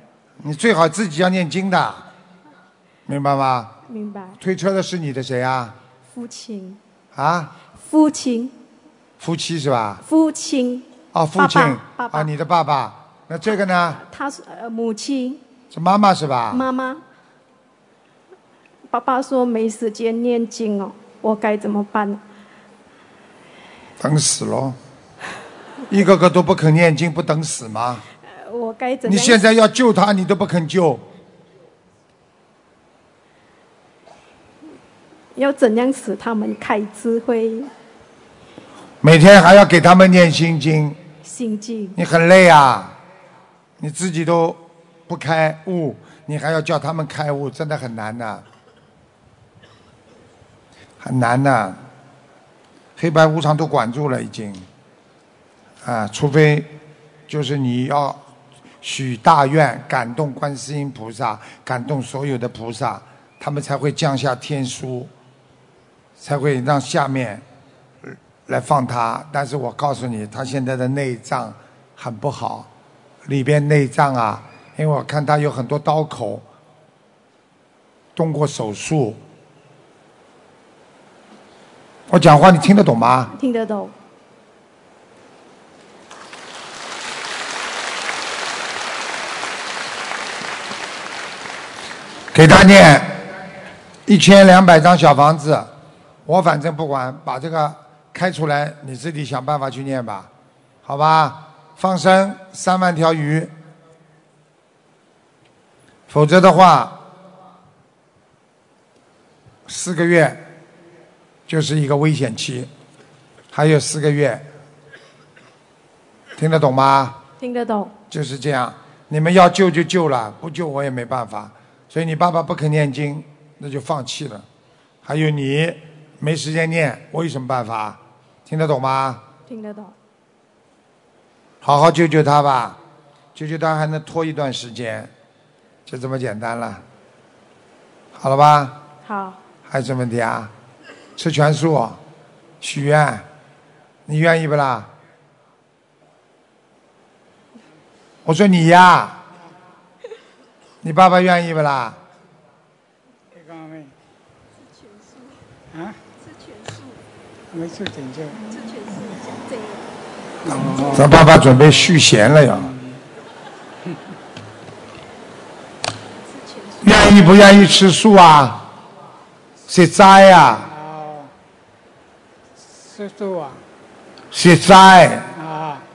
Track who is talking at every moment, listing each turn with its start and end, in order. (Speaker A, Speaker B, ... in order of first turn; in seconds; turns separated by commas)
Speaker A: 0.4-2.0, Speaker A: 3.1-3.7, Speaker B: 3.9-4.4, Speaker A: 4.4-5.8, Speaker B: 6.1-6.8, Speaker A: 7.1-7.5, Speaker B: 7.8-8.5, Speaker A: 9.2-10.0, Speaker B: 10.0-12.3, Speaker A: 11.1-14.0, Speaker B: 13.9-15.4, Speaker A: 15.7-16.6, Speaker B: 16.5-17.0, Speaker B: 18.9-22.2, Speaker A: 24.0-24.8, Speaker A: 25.9-28.0, Speaker B: 28.3-29.4, Speaker A: 29.1-31.0, Speaker B: 35.3-37.7, Speaker A: 39.0-41.0, Speaker B: 41.2-42.0, Speaker A: 42.0-42.9, Speaker A: 43.8-48.4, Speaker A: 51.0-51.8, Speaker A: 53.0-54.6, Speaker A: 55.8-56.7, Speaker A: 57.3-58.2, Speaker A: 58.8-65.1, Speaker A: 66.2-67.4, Speaker A: 68.0-72.7, Speaker A: 73.2-76.4, Speaker A: 78.2-79.2, Speaker A: 82.1-83.3, Speaker B: 83.3-83.9, Speaker A: 92.3-93.2, Speaker A: 94.1-95.7, Speaker A: 96.2-100.3, Speaker A: 100.8-103.5, Speaker A: 106.1-107.0, Speaker A: 109.7-110.4, Speaker A: 111.5-112.7, Speaker A: 113.5-114.4, Speaker A: 116.3-117.2, Speaker B: 117.4-117.9, Speaker A: 118.1-124.4, Speaker A: 125.0-129.2, Speaker B: 129.5-129.9, Speaker A: 131.6-132.8, Speaker A: 133.3-135.1, Speaker A: 135.8-136.8, Speaker A: 138.1-138.8, Speaker B: 139.0-139.4, Speaker A: 139.7-140.5, Speaker A: 141.2-142.0, Speaker A: 142.6-143.2, Speaker A: 144.1-144.9, Speaker A: 148.2-149.2, Speaker A: 150.8-152.0, Speaker C: 153.4-153.9, Speaker B: 156.2-156.9, Speaker C: 157.5-158.4, Speaker B: 158.5-159.8, Speaker C: 160.4-161.1, Speaker B: 160.5-161.0, Speaker A: 160.9-162.7, Speaker B: 166.2-167.4, Speaker A: 166.8-168.7, Speaker A: 169.7-170.7, Speaker C: 170.8-171.3, Speaker C: 172.8-173.6, Speaker A: 174.3-175.3, Speaker C: 175.4-175.8